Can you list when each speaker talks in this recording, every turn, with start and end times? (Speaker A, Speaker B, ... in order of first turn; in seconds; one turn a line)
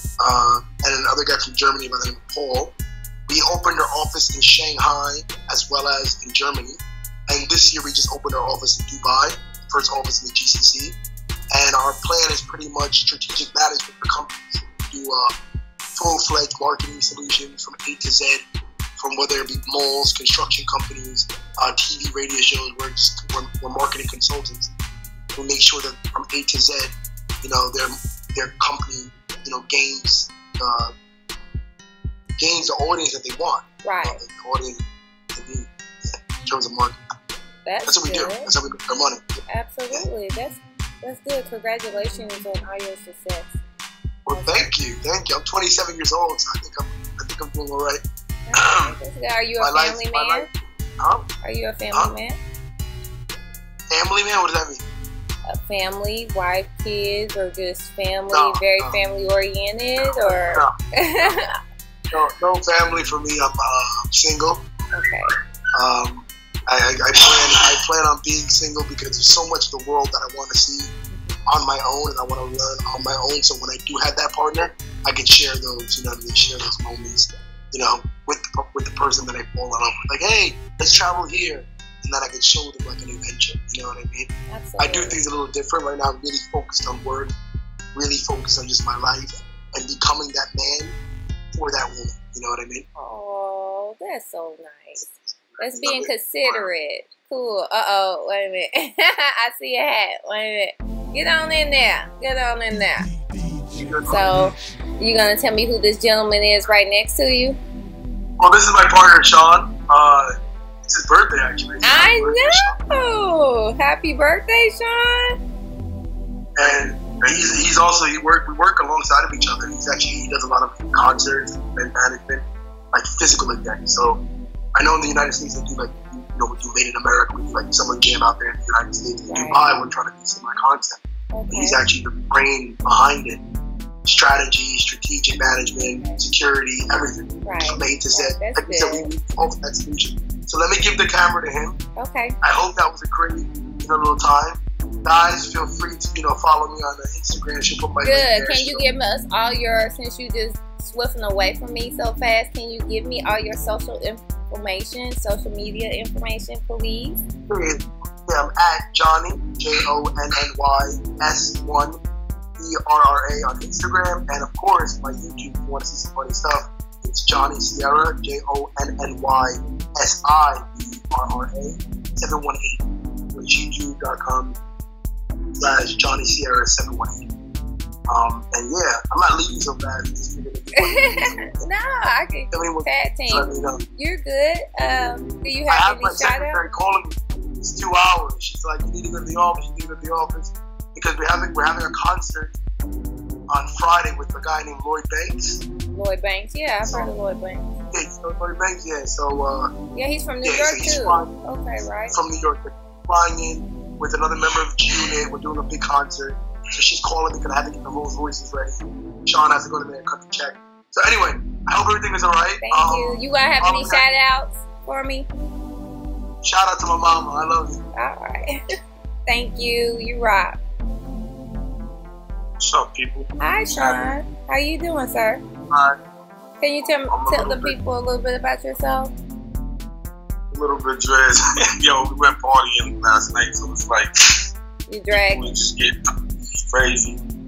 Speaker A: 0.2-2.8
Speaker A: 3.3-11.0
Speaker A: 11.5-15.3
Speaker A: 16.0-18.5
Speaker A: 19.0-24.7
Speaker A: 25.4-30.9
Speaker A: 32.4-34.8
Speaker B: 33.8-34.2
Speaker A: 35.4-37.0
Speaker B: 37.6-38.5
Speaker A: 37.9-39.4
Speaker B: 39.5-43.5
Speaker A: 44.3-49.0
Speaker B: 44.3-44.7
Speaker B: 48.5-50.5
Speaker A: 49.6-51.3
Speaker B: 51.4-52.4
Speaker A: 53.9-54.8
Speaker B: 55.5-61.6
Speaker A: 58.3-59.0
Speaker A: 60.2-61.4
Speaker A: 62.1-64.7
Speaker B: 65.0-65.3
Speaker A: 65.8-70.9
Speaker B: 71.1-71.4
Speaker A: 71.5-87.3
Speaker B: 84.5-85.2
Speaker A: 88.0-91.0
Speaker A: 91.5-92.9
Speaker B: 93.0-95.1
Speaker A: 95.0-96.7
Speaker B: 95.6-103.1
Speaker A: 103.7-104.2
Speaker B: 104.1-107.6
Speaker A: 108.4-110.3
Speaker A: 110.8-112.8
Speaker B: 111.8-115.4
Speaker A: 116.6-124.2
Speaker A: 124.8-133.4
Speaker B: 129.3-129.7
Speaker B: 131.3-131.8
Speaker A: 134.1-141.8
Speaker B: 137.4-139.1
Speaker B: 142.0-142.4
Speaker A: 142.4-148.8
Speaker B: 148.0-157.2
Speaker A: 157.5-162.0
Speaker A: 162.6-174.6
Speaker A: 175.6-177.3
Speaker A: 178.1-181.6
Speaker B: 180.8-186.6
Speaker A: 182.5-183.8
Speaker A: 185.7-192.6
Speaker A: 193.5-195.6
Speaker B: 195.9-197.7
Speaker A: 196.9-197.2
Speaker A: 197.9-199.7
Speaker B: 199.9-202.2
Speaker A: 200.4-201.3
Speaker A: 202.1-214.0
Speaker B: 212.6-215.3
Speaker A: 216.4-217.8
Speaker B: 217.9-218.6
Speaker B: 219.3-220.6
Speaker C: 222.6-224.1
Speaker B: 223.4-225.4
Speaker C: 225.7-226.0
Speaker B: 226.6-229.2
Speaker C: 227.1-227.8
Speaker C: 230.5-234.1
Speaker B: 234.9-235.6
Speaker C: 235.1-236.0
Speaker C: 236.7-237.2